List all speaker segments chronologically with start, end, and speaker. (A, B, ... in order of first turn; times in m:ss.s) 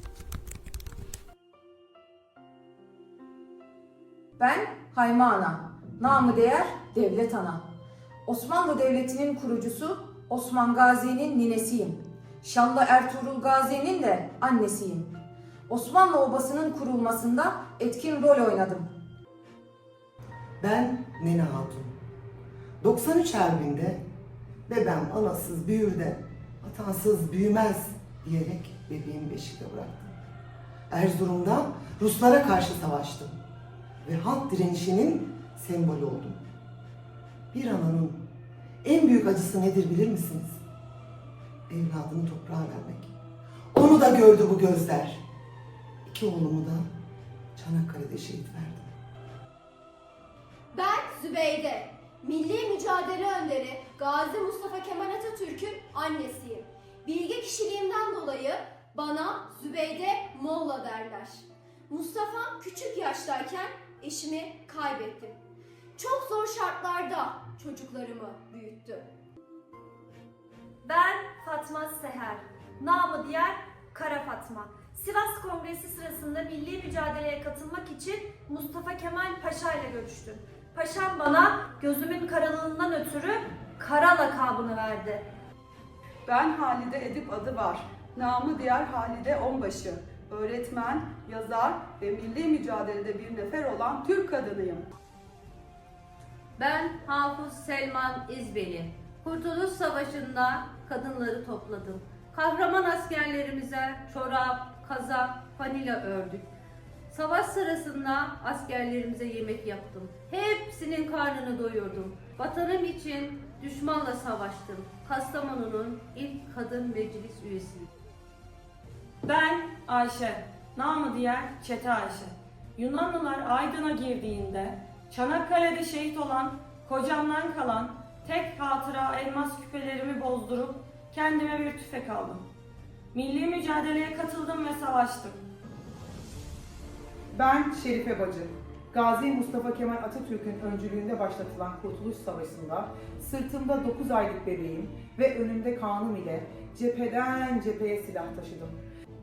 0:04.4-0:07.6 A
0:08.2-0:15.1 A
0:15.7-0:18.9 A
0:20.6-0:21.9 B
0:22.8-0:24.0 B
0:24.7-0:30.1 B
0:30.9-0:33.4 B
0:34.0-0:36.4 B
0:37.5-0:38.2 B
0:38.8-0:40.6 B
0:41.7-0:43.1 B
0:43.7-0:45.2 B
0:46.0-0:46.9 B
0:47.6-0:48.9 B
0:50.7-1:05.4 C
1:06.0-1:09.1 C
1:10.8-1:25.2 D
1:26.3-1:34.9 E
1:36.6-1:46.4 F
1:47.1-1:57.9 F
1:59.2-2:12.4 G
2:13.1-2:15.4 G
2:17.3-2:28.8 H